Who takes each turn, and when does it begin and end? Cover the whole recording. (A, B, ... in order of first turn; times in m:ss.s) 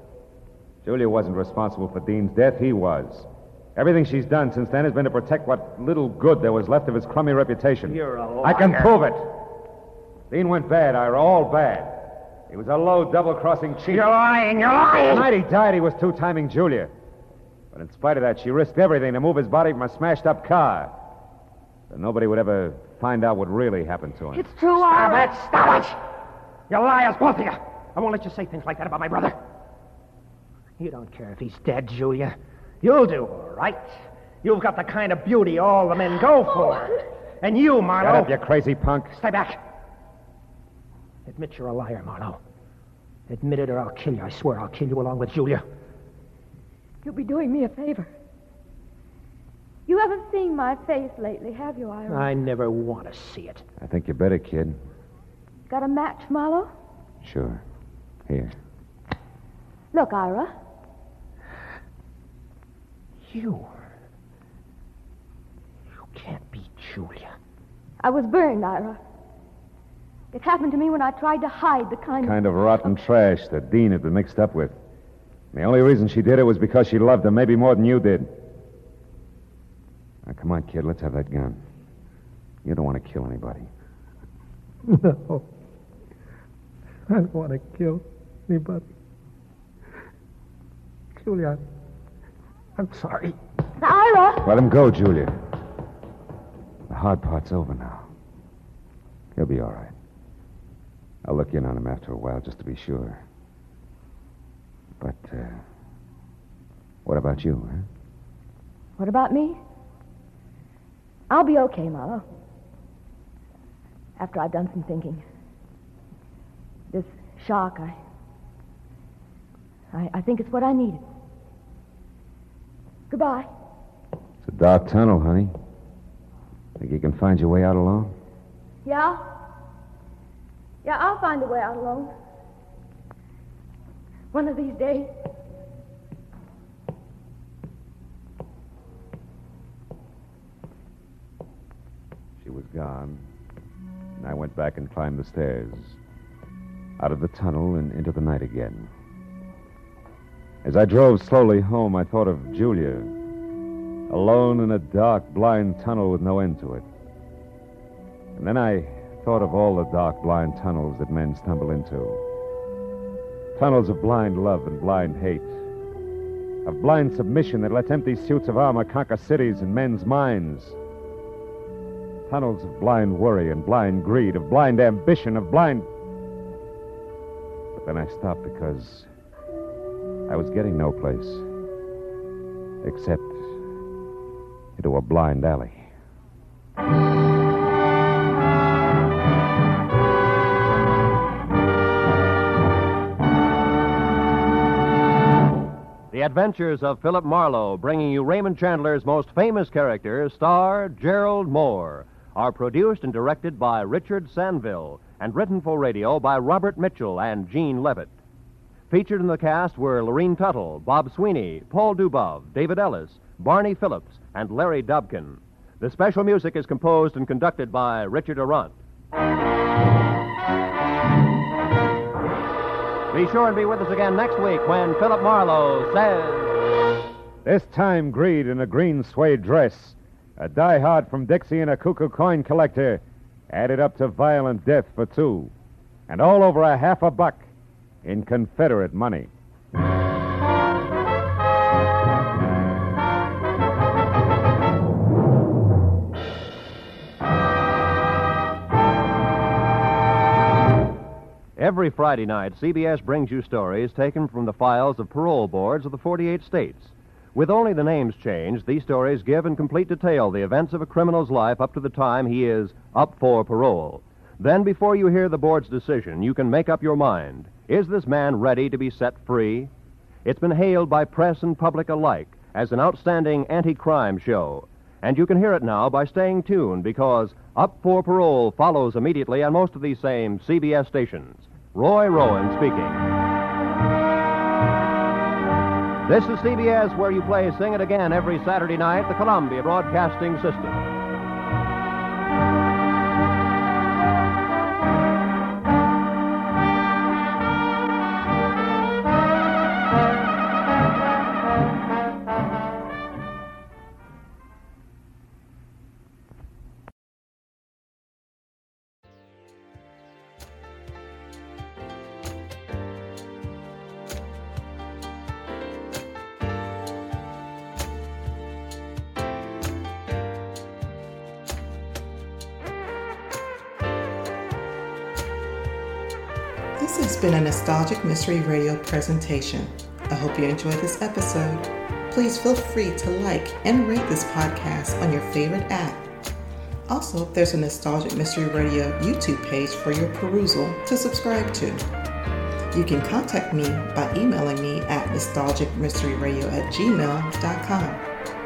0:00.8-0:09.4 A
0:07.8-0:08.9 B
0:10.3-0:14.1 A
0:13.9-0:15.2 B
0:15.0-0:16.9 A
0:17.7-0:20.9 A
0:21.9-0:24.4 A
0:24.3-0:25.3 C
0:24.7-0:26.0 B
0:26.7-0:29.4 B
0:30.8-0:38.3 B
0:38.0-0:39.2 A
0:39.1-0:39.6 B
0:41.2-0:42.4 B
0:43.3-0:45.6 B
0:47.0-0:48.1 C
0:49.9-0:52.3 C
0:52.1-0:53.6 B
0:53.8-0:54.8 A
0:55.7-0:56.7 C
0:57.2-0:57.6 A
0:58.3-0:58.5 A
0:59.9-1:00.5 C
1:03.2-1:03.7 B
1:06.0-1:07.3 B
1:08.0-1:09.0 C
1:10.3-1:12.9 C
1:12.2-1:14.8 A
1:15.5-1:18.3 A
1:20.2-1:21.6 A
1:22.6-1:23.7 A
1:24.8-1:25.4 B
1:27.1-1:28.8 B
1:31.1-1:31.6 B
1:32.8-1:33.4 B
1:33.8-1:34.5 C
1:34.4-1:35.3 A
1:36.9-1:38.1 A
1:39.4-1:39.9 A
1:41.2-1:43.2 A
1:45.0-1:45.6 A
1:47.0-1:47.9 A
1:49.0-1:49.6 C
1:51.3-1:52.2 C
1:54.2-1:55.2 C
1:56.9-1:58.0 C
1:59.9-2:01.0 C
2:03.1-2:03.5 C
2:04.4-2:05.5 A
2:06.8-2:08.1 A
2:08.8-2:09.2 C
2:10.8-2:12.1 C
2:14.3-2:15.1 C
2:22.4-2:23.2 A
2:24.2-2:26.0 A
2:27.0-2:28.9 A
2:30.6-2:33.1 A
2:34.1-2:36.9 A
2:38.4-2:42.2 A
2:43.6-2:45.6 A
2:46.6-2:50.8 A
2:52.3-2:55.9 A
2:57.8-2:59.1 A
3:00.3-3:01.4 A
3:02.8-3:03.5 A
3:04.8-3:05.9 A
3:16.1-3:28.1 D
3:28.9-3:38.7 D
3:43.1-3:46.6 D
3:47.4-3:55.5 A
3:56.1-3:57.5 A
3:58.0-3:59.3 A
4:11.6-4:29.7 D
4:30.2-4:43.0 D
4:46.0-4:50.8 D
5:26.8-5:36.0 E
5:36.9-5:41.8 E
5:42.7-5:48.0 E